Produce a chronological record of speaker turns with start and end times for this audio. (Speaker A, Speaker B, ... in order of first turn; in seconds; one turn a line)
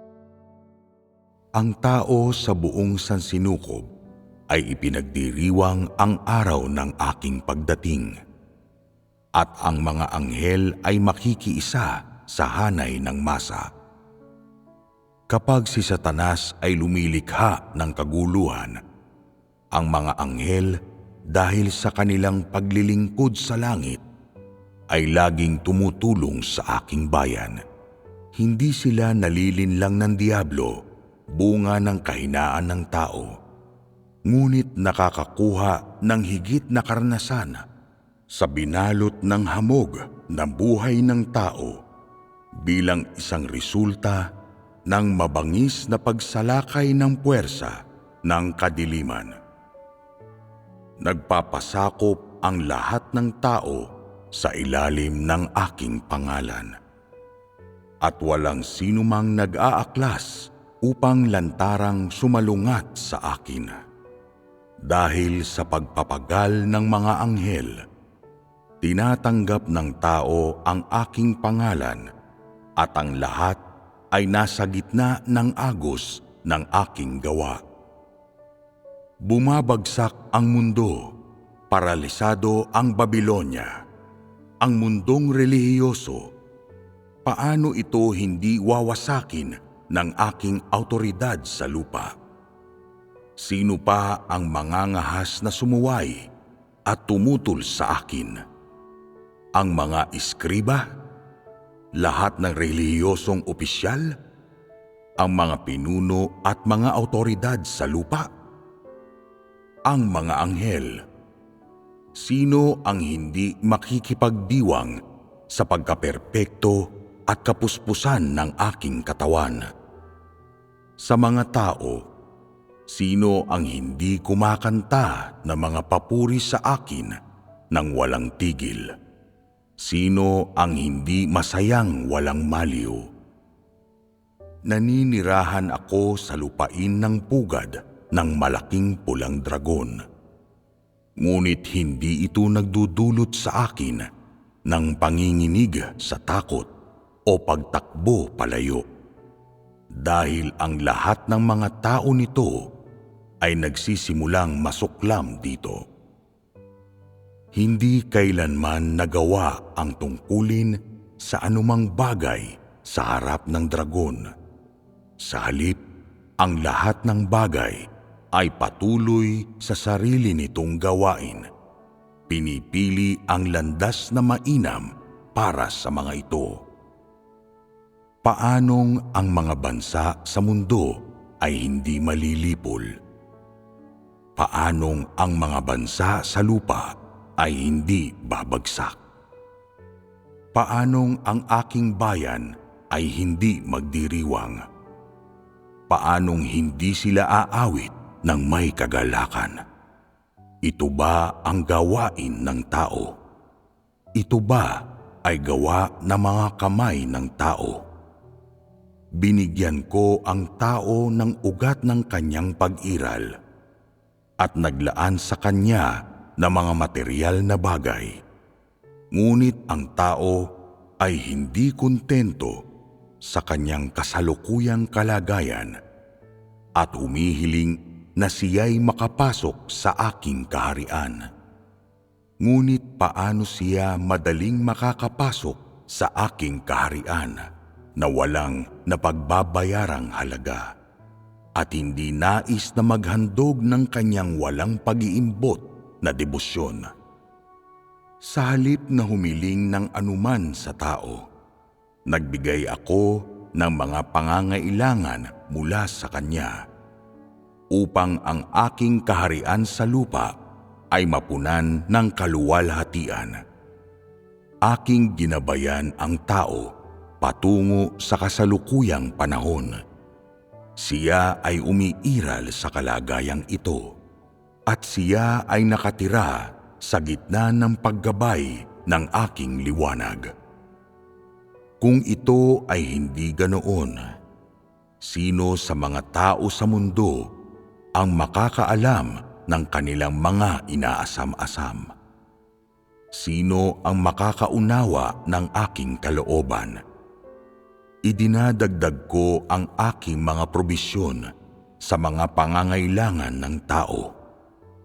Speaker A: 1.6-3.8
Speaker A: 4.5-8.1
Speaker A: 9.4-13.7
Speaker A: 15.3-18.8
Speaker A: 19.7-20.7
Speaker A: 21.3-24.0
Speaker A: 24.9-27.6
Speaker A: 28.4-30.7
Speaker A: 31.4-33.3
Speaker A: 34.3-37.6
Speaker A: 38.3-41.8
Speaker A: 42.6-44.2
Speaker A: 44.9-47.7
Speaker A: 48.3-49.3
Speaker A: 51.0-53.8
Speaker A: 54.4-56.7
Speaker A: 58.0-63.8
Speaker A: 64.9-67.8
Speaker A: 68.8-72.0
Speaker A: 72.8-73.6
Speaker A: 74.1-77.6
Speaker A: 79.3-81.0
Speaker A: 81.7-83.7
Speaker A: 84.6-86.2
Speaker A: 87.2-92.1
Speaker A: 93.4-96.2
Speaker A: 96.9-98.4
Speaker A: 99.6-100.8
Speaker A: 102.0-104.1
Speaker A: 105.2-108.3
Speaker A: 109.9-111.0
Speaker A: 112.2-114.9
Speaker A: 115.5-116.8
Speaker A: 117.3-119.7
Speaker A: 121.0-122.0
Speaker A: 122.9-127.1
Speaker A: 127.7-128.9
Speaker A: 129.8-133.0
Speaker A: 134.7-140.0
Speaker A: 141.2-144.1
Speaker A: 144.7-146.7
Speaker A: 147.3-148.8
Speaker A: 150.0-152.6
Speaker A: 153.4-155.8
Speaker A: 157.6-164.3
Speaker A: 165.2-165.8
Speaker A: 166.4-167.8
Speaker A: 168.3-171.4
Speaker A: 172.3-176.6
Speaker A: 178.2-182.8
Speaker A: 184.4-186.9
Speaker A: 187.4-189.0
Speaker A: 190.5-194.6
Speaker A: 195.9-199.6
Speaker A: 200.7-203.1
Speaker A: 204.2-204.7
Speaker A: 205.2-207.8
Speaker A: 209.2-213.3
Speaker A: 214.4-218.1
Speaker A: 219.1-220.4
Speaker A: 221.0-222.6
Speaker A: 223.2-225.7
Speaker A: 226.8-231.2
Speaker A: 232.4-237.4
Speaker A: 238.0-240.6
Speaker A: 241.6-246.9
Speaker A: 248.3-251.2
Speaker A: 252.1-256.5
Speaker A: 257.7-260.3
Speaker A: 260.9-263.4
Speaker A: 264.7-266.7
Speaker A: 267.2-269.8
Speaker A: 270.8-273.9
Speaker A: 274.7-280.3
Speaker A: 281.8-284.0
Speaker A: 285.0-287.2
Speaker A: 288.0-291.9
Speaker A: 293.1-296.8
Speaker A: 298.1-301.2
Speaker A: 301.9-304.1